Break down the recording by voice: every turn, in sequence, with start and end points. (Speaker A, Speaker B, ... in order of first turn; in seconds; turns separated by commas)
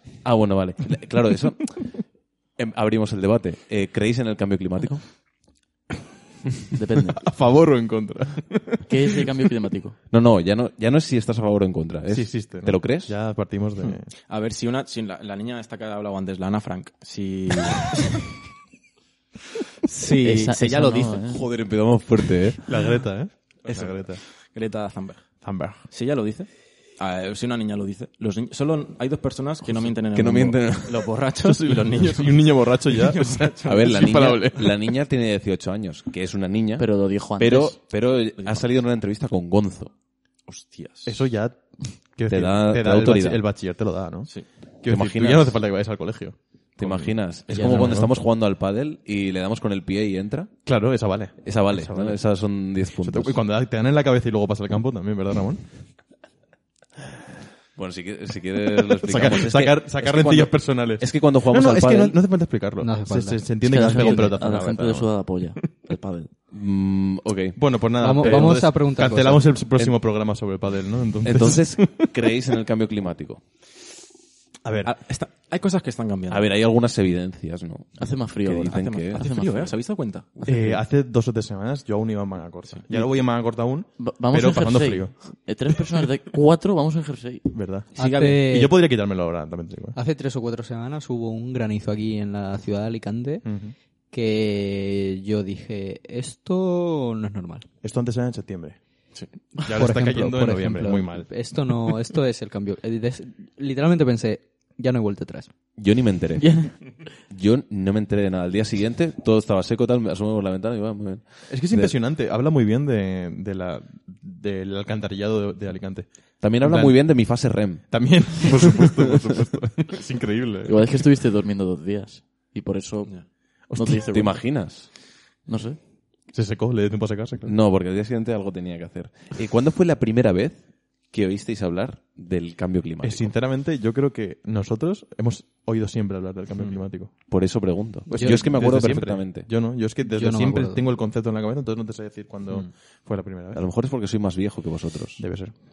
Speaker A: 0.2-5.0, Speaker B: 6.7-7.2, Speaker C: 7.2-8.9, Speaker B: 8.9-9.9, Speaker A: 10.1-13.2, Speaker C: 12.1-14.1, Speaker D: 13.8-18.2, Speaker D: 19.9-21.2, Speaker B: 20.2-21.4, Speaker A: 21.3-22.6, Speaker C: 22.7-24.2, Speaker D: 23.6-23.9, Speaker D: 24.5-33.9, Speaker C: 25.4-25.9, Speaker A: 30.1-31.1, Speaker C: 31.4-34.9, Speaker A: 33.7-39.9, Speaker B: 36.8-37.8, Speaker D: 38.3-38.6, Speaker D: 40.5-41.2, Speaker C: 41.0-48.1, Speaker A: 42.3-43.4, Speaker A: 44.9-45.6, Speaker A: 46.8-50.5, Speaker D: 47.5-47.9, Speaker C: 50.6-52.2, Speaker A: 51.4-53.4, Speaker C: 53.0-55.6, Speaker A: 57.7-62.2, Speaker C: 59.0-65.1, Speaker E: 62.8-63.4, Speaker B: 63.6-66.3, Speaker A: 66.5-67.6, Speaker C: 67.5-72.1, Speaker E: 68.0-69.5, Speaker A: 68.1-68.7, Speaker A: 71.2-73.4, Speaker C: 74.6-74.9, Speaker D: 74.8-76.5, Speaker A: 76.3-79.3, Speaker B: 78.0-79.7, Speaker D: 78.5-80.8, Speaker C: 80.5-85.1, Speaker D: 82.7-83.0, Speaker B: 84.0-87.5, Speaker C: 87.5-90.0, Speaker D: 87.9-88.4, Speaker E: 88.0-88.7, Speaker E: 89.9-93.5, Speaker C: 93.4-93.8, Speaker E: 94.1-97.6, Speaker C: 97.8-98.8, Speaker C: 99.6-101.3, Speaker E: 99.7-105.5, Speaker A: 105.8-106.5, Speaker B: 106.4-106.7, Speaker A: 107.3-111.9, Speaker C: 111.5-120.8, Speaker A: 116.4-118.2, Speaker B: 120.7-124.6, Speaker C: 123.7-124.0, Speaker A: 124.0-124.9, Speaker B: 125.5-125.8, Speaker C: 126.3-127.5, Speaker A: 127.4-133.3, Speaker C: 133.0-143.6, Speaker D: 136.6-136.8, Speaker A: 137.3-139.5, Speaker E: 140.0-140.8, Speaker A: 143.5-145.2, Speaker C: 145.2-145.5